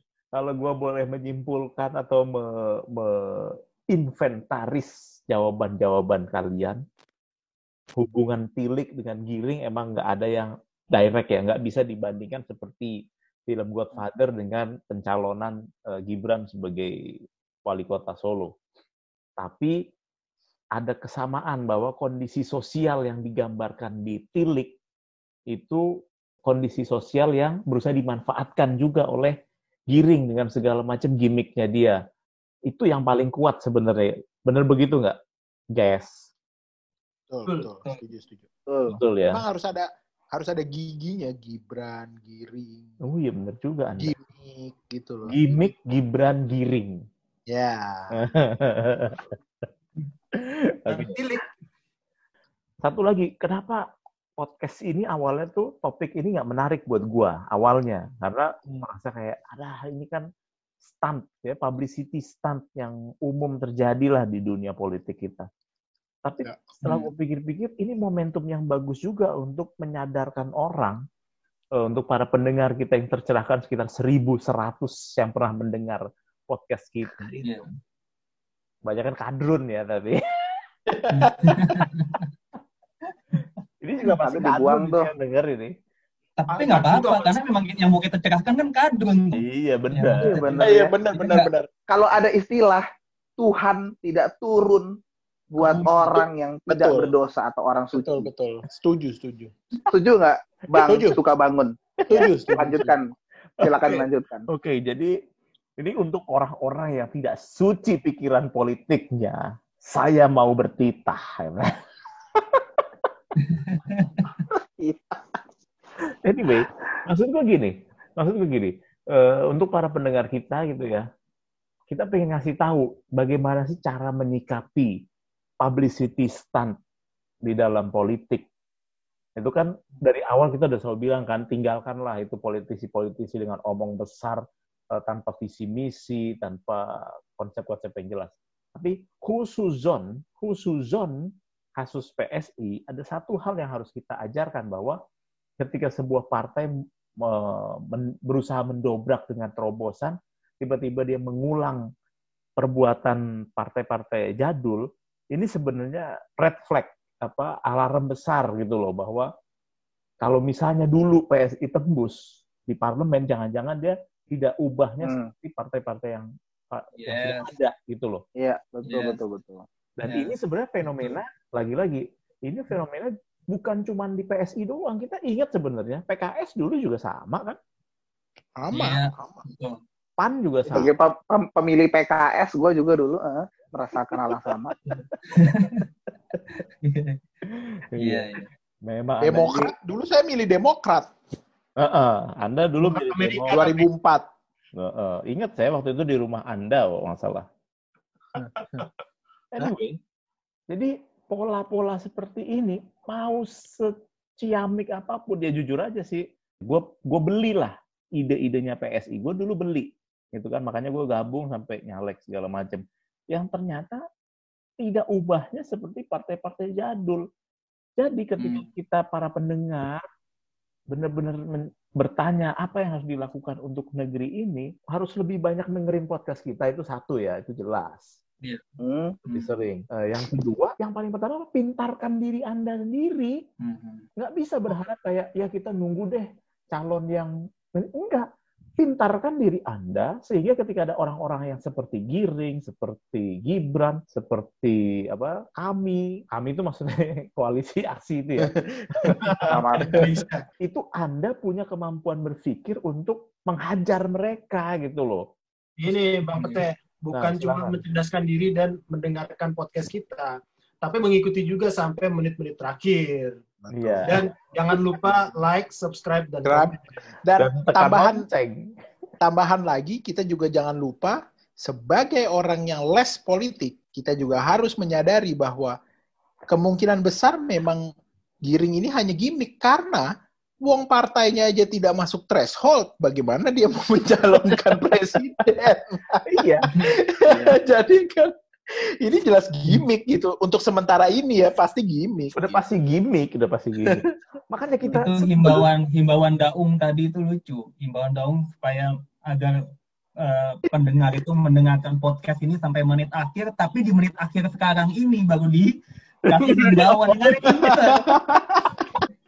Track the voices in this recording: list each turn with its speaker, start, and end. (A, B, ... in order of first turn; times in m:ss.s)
0:00.3-0:06.8 A
0:07.9-0:12.9 A
0:13.5-0:16.9 A
0:17.6-0:18.5 A
0:19.4-0:19.8 A
0:20.8-0:24.8 A
0:25.5-0:25.8 A
0:26.4-0:29.3 A
0:29.9-0:32.0 A
0:32.7-0:35.2 A
0:35.7-0:36.3 A
0:37.3-0:38.5 B
0:38.7-0:39.0 C
0:38.9-0:39.4 A
0:39.3-0:43.0 B
0:43.0-0:44.1 A
0:44.0-0:45.4 B
0:45.2-0:47.0 A
0:47.5-0:48.2 B
0:48.1-0:49.3 A
0:50.3-0:51.1 A
0:50.9-0:51.5 D
0:52.8-0:53.8 A
0:54.4-1:00.2 A
1:00.8-1:05.5 A
1:06.2-1:11.0 A
1:06.4-1:06.8 B
1:11.8-1:17.6 A
1:17.4-1:17.7 E
1:18.8-1:20.6 A
1:20.9-1:21.3 B
1:21.1-1:22.2 E
1:23.8-1:25.7 A
1:24.0-1:25.1 C
1:26.4-1:30.6 E
1:26.5-1:27.4 D
1:29.3-1:30.3 A
1:30.2-1:30.9 C
1:30.6-1:31.7 B
1:31.1-1:31.5 E
1:31.9-1:32.8 C
1:33.4-1:34.9 C
1:35.5-1:38.3 C
1:35.6-1:37.1 B
1:37.9-1:39.5 B
1:39.9-1:43.0 C
1:40.7-1:41.2 B
1:42.0-1:42.9 B
1:43.6-1:44.5 C
1:44.5-1:45.1 A
1:45.8-1:51.7 A
1:53.4-1:54.3 E
1:54.8-1:55.2 C
1:56.2-2:01.0 A
2:01.9-2:04.9 A
2:05.6-2:06.7 A
2:07.4-2:08.4 A
2:09.4-2:14.4 A
2:14.9-2:25.0 A
2:25.6-2:31.8 A
2:32.6-2:39.3 A
2:40.2-2:48.2 A
2:45.0-2:45.3 C
2:47.0-2:47.5 E
2:48.4-2:49.6 C
2:48.8-2:49.2 E
2:50.0-2:57.6 A
2:50.0-2:50.3 E
2:50.8-2:51.1 E
2:58.6-2:59.4 B
2:58.7-2:59.8 E
3:00.2-3:00.9 A
3:00.7-3:04.7 C
3:04.8-3:05.9 E
3:06.5-3:07.2 E
3:07.4-3:08.2 A
3:08.0-3:08.4 E
3:08.8-3:09.7 A
3:09.2-3:11.1 B
3:11.8-3:13.7 A
3:12.8-3:13.8 D
3:13.5-3:14.2 B
3:14.8-3:17.4 A
3:18.4-3:18.9 D
3:19.5-3:20.0 A
3:20.7-3:34.0 A
3:34.8-3:37.2 A
3:38.0-3:40.0 A
3:38.4-3:38.7 E
3:40.9-3:48.2 A
3:48.8-3:49.2 C
3:49.3-3:53.4 A
3:53.6-3:54.0 E
3:54.2-3:58.2 A
3:58.8-4:10.1 A
4:09.1-4:10.4 D
4:09.5-4:10.1 C
4:10.6-4:15.2 A
4:15.8-4:23.4 D
4:16.4-4:16.6 E
4:17.1-4:17.8 A
4:23.6-4:24.2 B
4:23.7-4:24.2 A
4:24.1-4:27.1 D
4:26.4-4:28.2 B
4:27.4-4:28.7 A
4:29.2-4:35.8 B
4:36.5-4:37.9 B
4:38.4-4:40.1 B
4:40.6-4:52.6 B
4:46.2-4:46.7 A
4:52.3-4:55.6 A
4:54.9-4:59.6 E
5:00.2-5:05.7 E
5:06.2-5:08.2 E
5:07.0-5:07.7 D
5:07.4-5:08.8 B